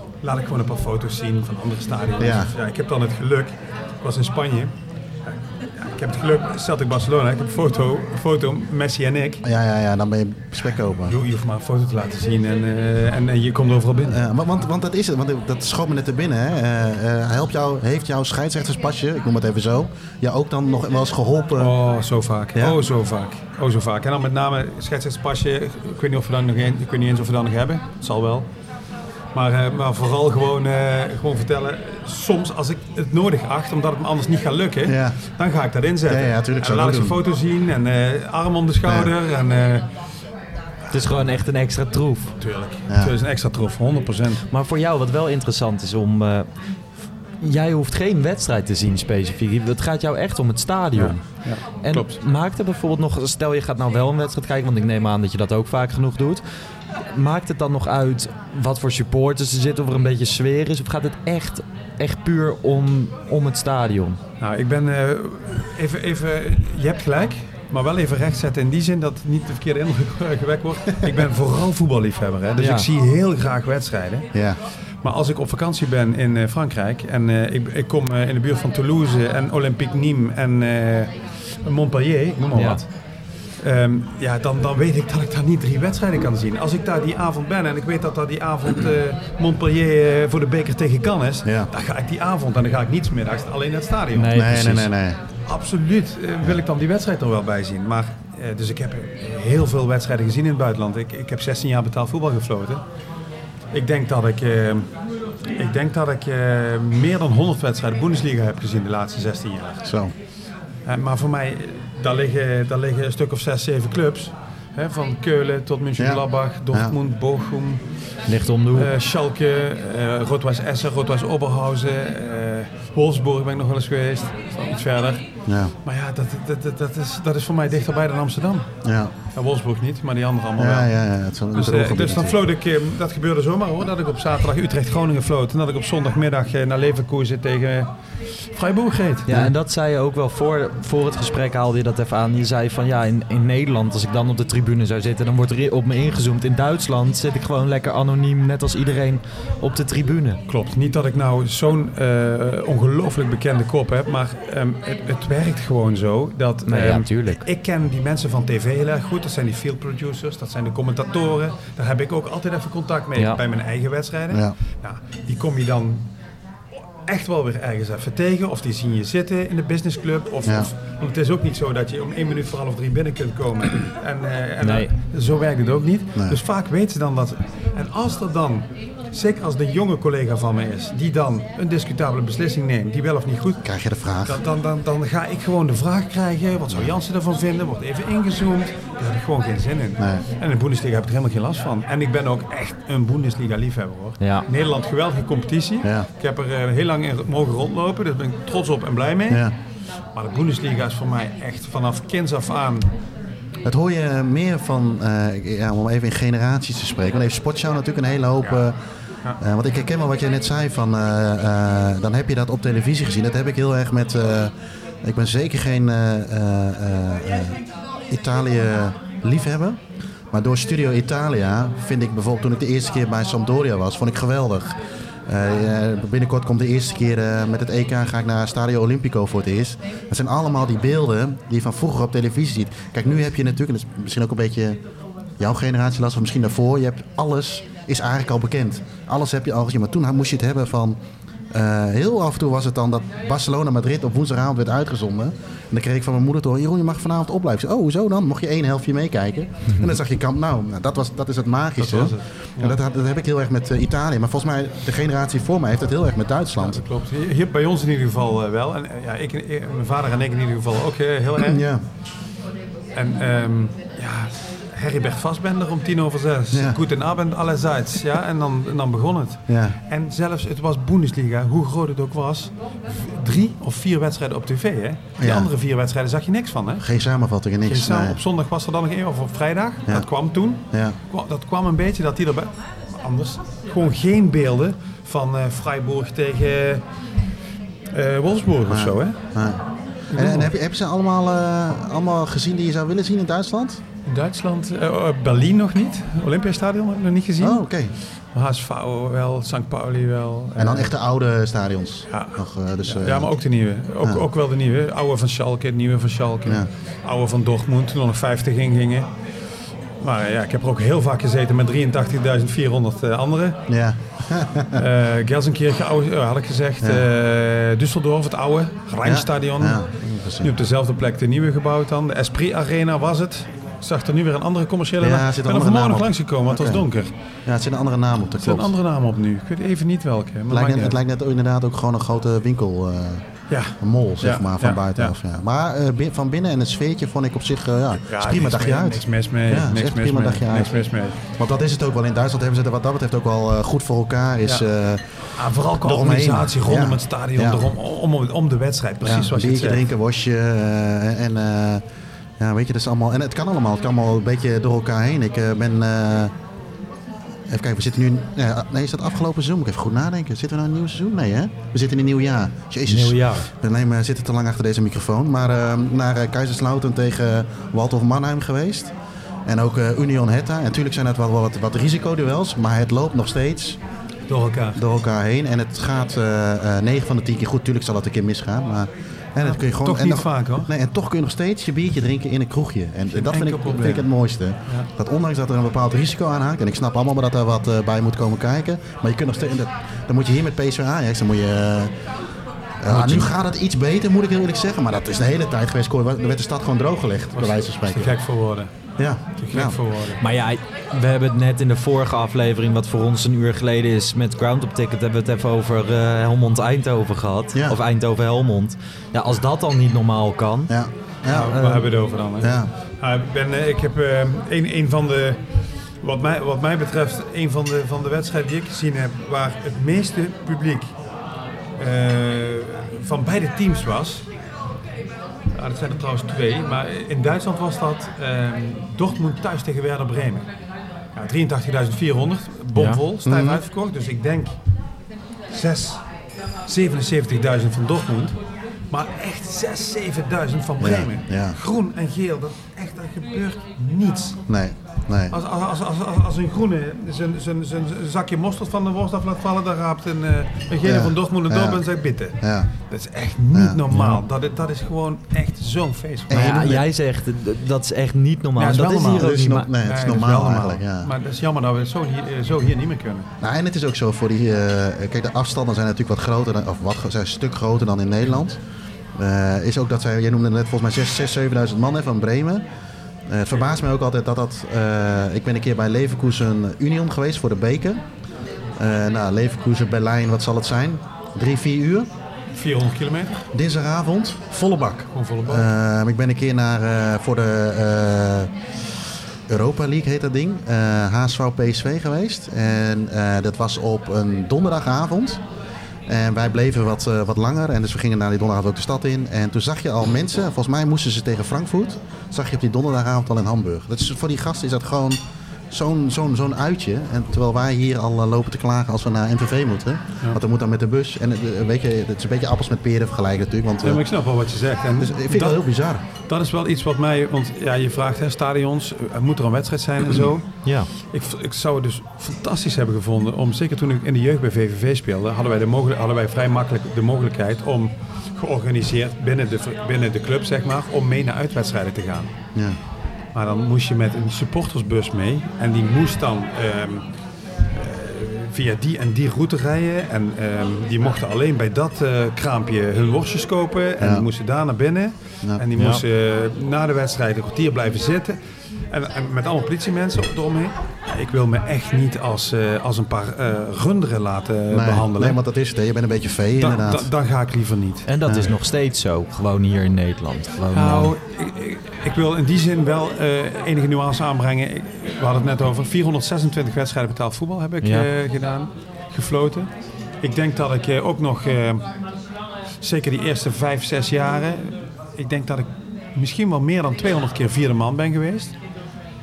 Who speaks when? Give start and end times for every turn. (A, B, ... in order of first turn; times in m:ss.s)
0:00.2-0:04.7 A
0:02.2-0:02.5 B
0:05.2-0:09.4 A
0:09.4-0:11.2 B
0:11.0-0:14.2 A
0:14.1-0:21.7 B
0:21.6-0:28.5 A
0:29.3-0:39.9 A
0:34.8-0:35.2 B
0:36.1-0:37.2 B
0:38.8-0:39.1 B
0:40.9-0:42.3 C
0:42.4-0:44.4 A
0:44.5-0:46.5 C
0:47.4-0:56.4 C
0:50.9-0:52.2 A
0:57.0-1:04.2 C
1:04.4-1:14.3 A
1:12.6-1:12.9 C
1:14.3-1:14.6 B
1:15.0-1:22.9 A
1:22.5-1:22.8 C
1:23.6-1:34.4 A
1:34.1-1:34.9 C
1:34.3-1:35.2 B
1:35.4-1:42.8 A
1:43.7-1:44.9 A
1:45.5-1:49.8 A
1:49.8-1:50.1 B
1:50.8-1:57.8 A
1:56.0-1:57.0 B
1:58.3-1:58.9 C
1:58.7-2:05.2 A
2:05.5-2:05.7 B
2:05.8-2:08.7 A
2:08.8-2:09.1 B
2:09.3-2:10.9 A
2:10.6-2:12.3 B
2:11.5-2:19.4 A
2:19.3-2:30.4 C
2:30.5-2:46.0 A
2:36.6-2:37.4 C
2:47.1-3:03.6 A
2:54.6-2:54.9 C
3:03.6-3:04.4 B
3:04.2-3:19.5 A
3:10.0-3:10.2 B
3:14.2-3:14.4 C
3:15.8-3:16.1 B
3:20.1-3:22.9 A
3:23.6-3:28.7 B
3:29.4-3:34.5 B
3:35.0-3:39.8 B
3:40.3-3:44.7 B
3:45.3-3:54.8 B
3:55.4-4:01.0 B
4:01.5-4:16.8 B
4:09.7-4:10.0 C
4:11.8-4:12.8 A
4:16.6-4:21.6 A
4:21.4-4:21.8 B
4:22.9-4:36.8 A
4:26.5-4:26.8 B
4:29.5-4:29.8 B
4:35.2-4:35.5 B
4:36.8-4:38.2 B
4:37.6-4:46.8 A
4:40.7-4:41.0 B
4:47.9-4:49.2 A
4:48.7-4:49.6 B
4:50.1-4:50.5 A
4:50.1-4:53.8 B
4:54.0-4:57.7 A
4:57.4-4:57.9 B
4:58.3-5:00.9 A
5:00.6-5:03.3 B
5:02.1-5:09.1 A
5:10.0-5:13.6 A
5:13.7-5:14.8 B
5:14.7-5:27.1 A
5:19.0-5:20.5 B
5:25.0-5:26.9 B
5:27.4-5:28.7 B
5:28.4-5:31.0 A
5:30.5-5:33.2 B
5:33.5-5:35.1 A
5:33.8-5:40.7 B
5:38.0-5:41.2 A
5:41.3-5:45.0 B
5:45.4-5:49.8 A
5:45.7-5:47.7 B
5:49.0-5:51.8 B
5:52.4-5:56.3 B
5:57.5-6:08.9 B
6:02.9-6:03.5 C
6:09.5-6:13.8 B
6:14.3-6:14.8 A
6:14.8-6:31.9 B
6:19.4-6:20.7 A
6:23.1-6:24.1 A
6:32.8-6:38.2 B
6:32.9-6:33.2 A
6:37.3-6:38.7 A
6:39.0-6:39.8 B
6:39.4-6:40.2 A
6:40.2-6:50.7 C
6:50.7-6:51.8 B
6:51.3-6:55.4 A
6:51.3-6:51.8 C
6:52.4-6:52.7 B
6:56.0-7:00.9 A
7:01.8-7:04.2 A
7:05.5-7:10.5 A
7:11.1-7:14.6 A
7:12.8-7:13.0 C
7:13.2-7:13.6 B
7:15.5-7:16.0 A
7:16.7-7:18.4 A
7:18.9-7:24.4 A
7:20.8-7:21.6 B
7:24.5-7:25.3 B
7:25.3-7:36.8 A
7:30.8-7:31.8 B
7:32.4-7:32.7 B
7:33.5-7:33.8 B
7:33.9-7:34.2 C
7:36.3-7:36.8 B
7:36.3-7:39.7 C
7:38.6-7:43.3 A
7:39.2-7:41.1 B
7:43.4-7:48.6 B
7:49.2-7:52.6 B
7:53.3-7:58.0 B
7:58.8-8:02.1 B
8:02.5-8:03.4 A
8:03.5-8:08.5 B
8:05.1-8:05.6 A
8:09.5-8:15.4 B
8:16.1-8:25.2 B
8:25.7-8:34.0 B
8:33.8-8:35.7 A
8:35.0-8:36.0 B
8:36.3-8:52.3 A
8:53.3-8:57.0 A
8:57.7-9:08.4 A
9:04.0-9:04.3 B
9:05.8-9:06.0 C
9:08.9-9:15.4 A
9:14.7-9:17.1 B
9:16.6-9:18.1 A
9:18.0-9:21.1 C
9:18.2-9:18.5 B
9:20.7-9:29.7 A
9:27.8-9:28.1 C
9:30.2-9:31.8 A
9:32.8-9:38.5 A